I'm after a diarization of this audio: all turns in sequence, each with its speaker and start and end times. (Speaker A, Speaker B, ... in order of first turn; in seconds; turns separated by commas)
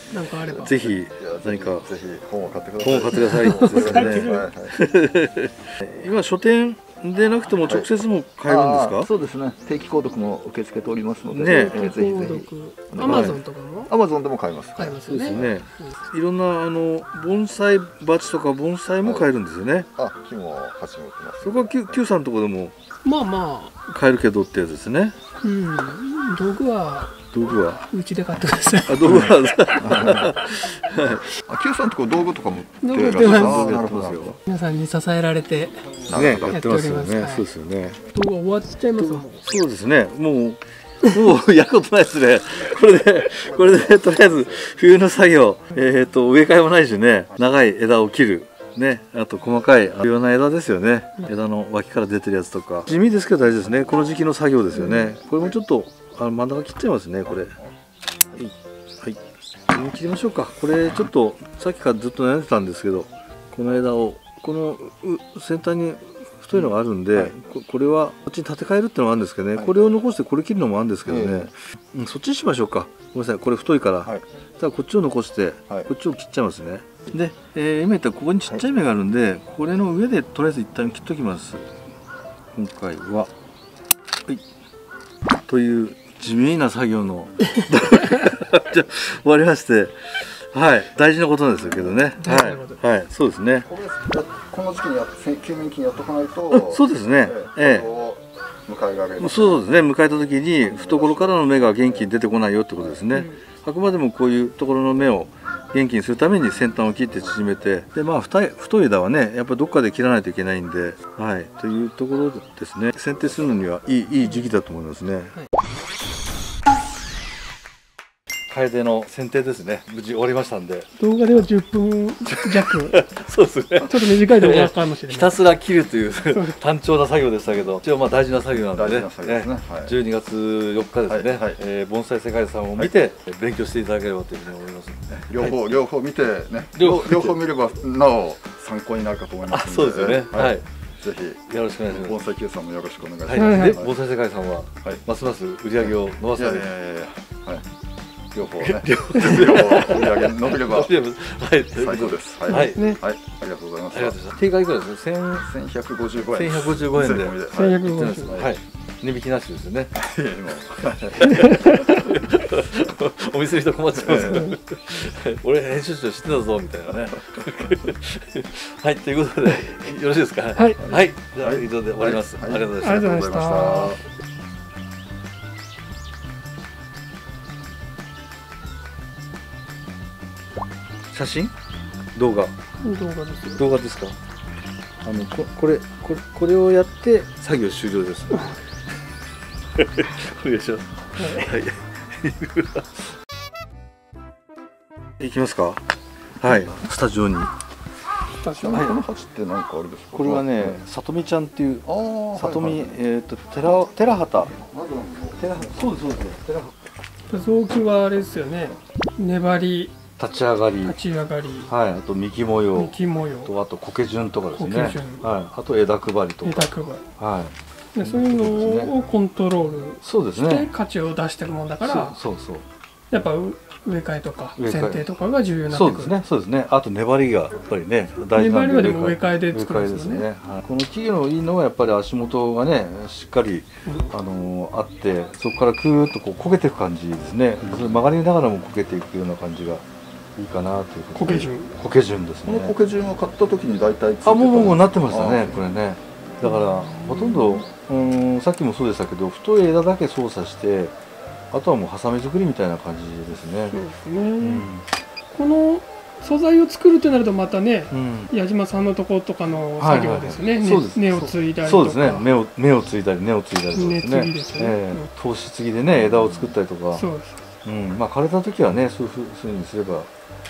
Speaker A: 0.1-0.8, Speaker B: 0.5-1.9, Speaker C: 1.2-4.8, Speaker B: 2.8-9.1, Speaker A: 3.3-4.5, Speaker C: 7.6-7.9, Speaker C: 8.5-13.4, Speaker B: 11.3-11.8, Speaker A: 11.4-13.9, Speaker B: 13.0-13.4, Speaker C: 13.9-15.5, Speaker A: 14.8-15.9, Speaker B: 15.1-19.9, Speaker C: 19.0-19.3, Speaker C: 19.9-22.0, Speaker B: 21.4-22.7, Speaker A: 23.0-23.8, Speaker B: 23.9-25.2, Speaker A: 25.4-27.1, Speaker B: 27.3-27.9, Speaker A: 27.9-30.3, Speaker B: 28.9-31.2, Speaker C: 29.8-30.3, Speaker C: 31.3-34.4, Speaker A: 32.8-33.8, Speaker B: 33.0-34.4, Speaker A: 34.5-35.8, Speaker C: 36.0-36.7, Speaker B: 36.1-38.0, Speaker A: 36.5-37.5, Speaker A: 38.1-39.4, Speaker B: 39.0-57.5, Speaker C: 43.4-44.8, Speaker B: 58.4-59.2, Speaker B: 59.7-81.7, Speaker C: 71.1-71.5, Speaker B: 82.5-83.3, Speaker B: 85.5-93.7, Speaker C: 91.7-92.0, Speaker A: 92.2-92.8, Speaker C: 93.6-99.7, Speaker B: 96.5-97.9, Speaker B: 99.2-115.4, Speaker C: 100.6-102.1, Speaker C: 102.8-103.1, Speaker A: 103.1-103.4, Speaker B: 118.5-121.4, Speaker A: 121.0-123.0, Speaker B: 122.3-135.7, Speaker A: 123.9-125.4, Speaker A: 126.3-126.6, Speaker C: 128.7-130.0, Speaker C: 131.1-131.6, Speaker C: 135.2-143.9, Speaker B: 136.8-137.4, Speaker B: 139.5-140.7, Speaker B: 141.5-142.2, Speaker B: 143.3-146.7, Speaker A: 143.3-143.8, Speaker C: 146.3-147.6, Speaker C: 148.3-151.0, Speaker B: 148.6-152.8, Speaker C: 151.8-154.3, Speaker A: 152.5-153.0, Speaker B: 153.9-155.5, Speaker C: 155.4-158.5, Speaker B: 156.3-159.9, Speaker A: 157.5-158.4, Speaker C: 160.0-161.3, Speaker B: 161.1-173.1, Speaker A: 161.4-162.0, Speaker C: 164.0-164.5, Speaker A: 164.1-164.6, Speaker A: 170.5-171.0, Speaker C: 170.9-174.0, Speaker A: 172.7-174.0, Speaker B: 181.1-181.5, Speaker B: 182.2-182.6, Speaker A: 182.8-183.6, Speaker B: 183.6-184.2, Speaker B: 185.0-188.6, Speaker B: 189.8-193.1, Speaker A: 191.2-191.6, Speaker B: 195.2-195.8, Speaker B: 196.4-197.5, Speaker A: 198.4-199.0, Speaker C: 198.5-200.8, Speaker B: 198.7-199.0, Speaker B: 200.1-204.5, Speaker C: 201.8-203.0, Speaker C: 204.6-205.5, Speaker B: 205.4-206.8, Speaker A: 207.3-209.9, Speaker B: 210.2-211.0, Speaker A: 210.8-211.7, Speaker B: 211.7-218.9, Speaker A: 212.8-213.5, Speaker A: 214.6-215.3, Speaker A: 216.4-217.0, Speaker A: 217.9-222.2, Speaker B: 220.0-220.7, Speaker B: 221.8-222.7, Speaker A: 223.1-226.2, Speaker B: 224.6-225.1, Speaker B: 225.7-239.8, Speaker A: 228.3-230.3, Speaker A: 233.9-234.1, Speaker B: 240.4-242.8, Speaker A: 241.2-241.7, Speaker C: 242.4-245.6, Speaker B: 244.2-251.0, Speaker A: 246.7-247.6, Speaker B: 251.5-253.8, Speaker A: 253.7-254.7, Speaker B: 254.4-254.9, Speaker A: 255.3-262.3, Speaker B: 257.9-258.3, Speaker B: 259.8-267.1, Speaker A: 263.7-265.1, Speaker A: 266.9-267.4, Speaker B: 267.6-270.1